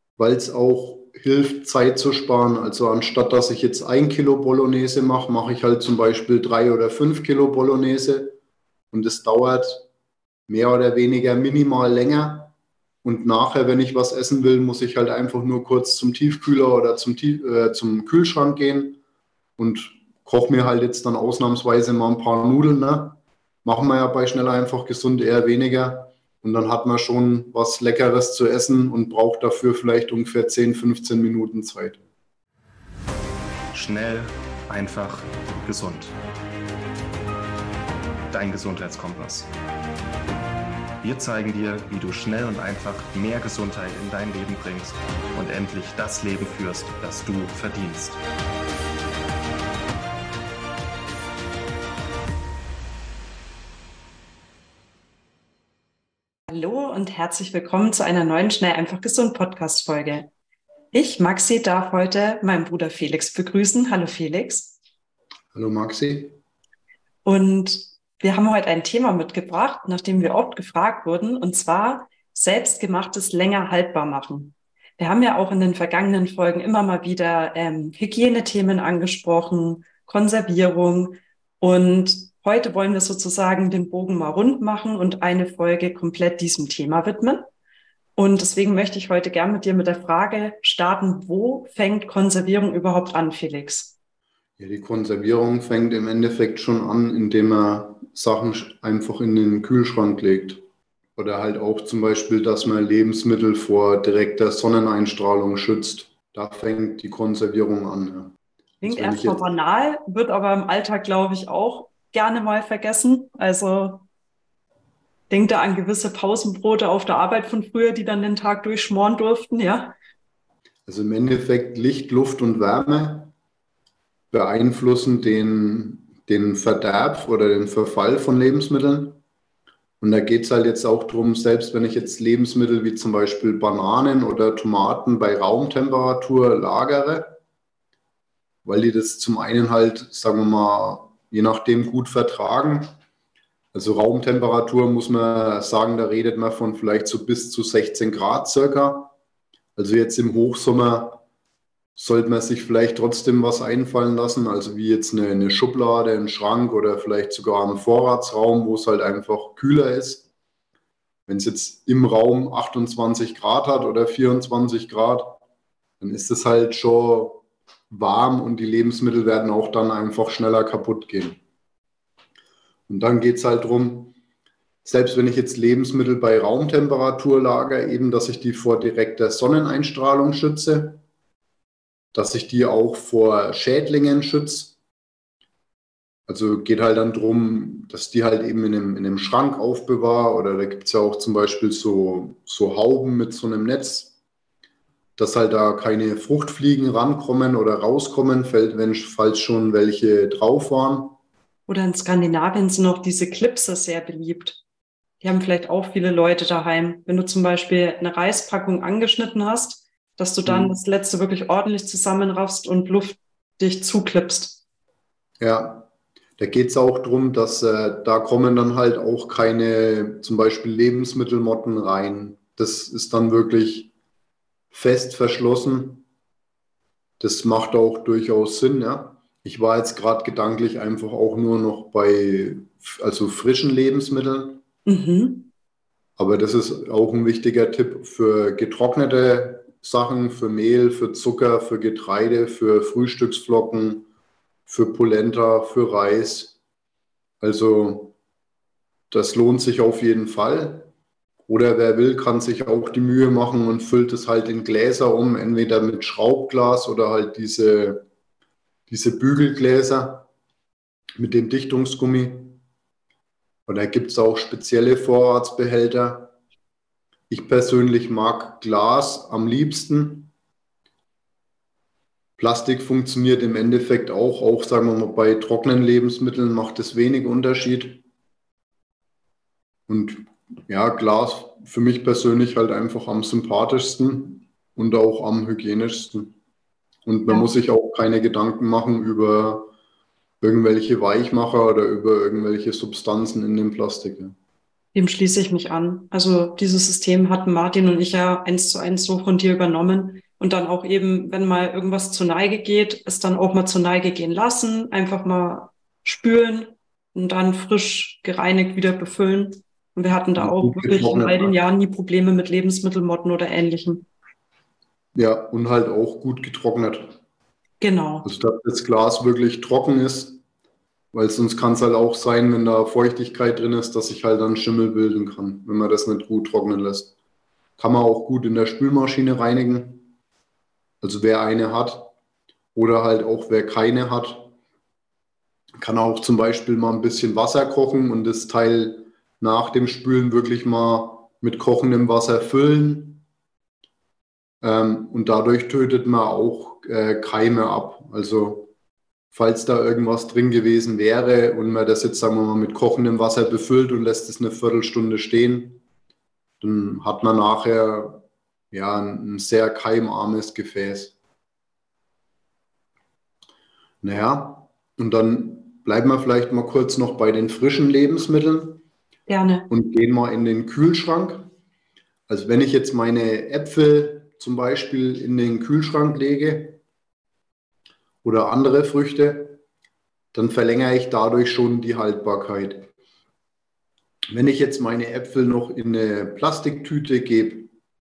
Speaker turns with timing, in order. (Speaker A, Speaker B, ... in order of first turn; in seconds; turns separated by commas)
Speaker A: 0.2-8.3, Speaker A: 8.9-9.8, Speaker A: 10.5-12.5, Speaker A: 13.0-19.0, Speaker A: 19.6-32.0, Speaker B: 33.7-36.1, Speaker B: 38.3-39.5, Speaker B: 41.0-48.2, Speaker C: 56.5-60.3, Speaker C: 60.9-64.8, Speaker A: 65.5-66.4, Speaker C: 67.2-87.5, Speaker C: 88.2-93.9, Speaker A: 94.6-100.6, Speaker A: 101.2-108.3, Speaker C: 108.8-114.0, Speaker A: 108.8-109.4, Speaker C: 115.3-119.9, Speaker A: 120.9-123.3, Speaker A: 124.3-129.2, Speaker A: 130.0-137.4, Speaker A: 138.6-142.9, Speaker A: 143.7-149.1, Speaker A: 149.8-151.2, Speaker A: 152.0-160.3, Speaker A: 161.3-165.4, Speaker A: 166.0-171.4, Speaker A: 172.9-174.1, Speaker A: 174.8-181.0, Speaker A: 182.1-184.7, Speaker A: 186.3-194.1, Speaker A: 195.2-201.2, Speaker C: 201.7-204.6, Speaker C: 205.2-214.6, Speaker A: 210.4-210.8, Speaker A: 215.4-223.9, Speaker A: 224.7-226.0, Speaker A: 227.2-234.6, Speaker C: 234.8-235.5, Speaker A: 236.2-244.1, Speaker A: 244.7-246.5, Speaker A: 247.4-248.1, Speaker A: 249.1-250.9, Speaker A: 251.5-258.0, Speaker A: 258.9-260.3, Speaker A: 261.2-262.6, Speaker A: 263.7-266.3, Speaker A: 267.3-270.3, Speaker A: 272.4-278.0, Speaker A: 279.9-286.3, Speaker A: 287.1-289.7, Speaker A: 290.4-294.3, Speaker C: 294.9-314.1, Speaker A: 310.4-311.5, Speaker A: 315.1-317.1, Speaker C: 317.8-318.3, Speaker A: 318.2-320.4, Speaker A: 321.1-327.1, Speaker A: 327.8-330.1, Speaker A: 331.0-332.1, Speaker A: 332.7-334.5, Speaker A: 335.8-343.2, Speaker A: 344.6-348.7, Speaker A: 349.3-355.8, Speaker A: 356.6-361.1, Speaker A: 364.0-368.8, Speaker C: 369.3-369.7, Speaker A: 369.7-371.5, Speaker A: 372.3-376.8, Speaker A: 378.2-379.6, Speaker A: 380.3-382.9, Speaker A: 384.3-387.7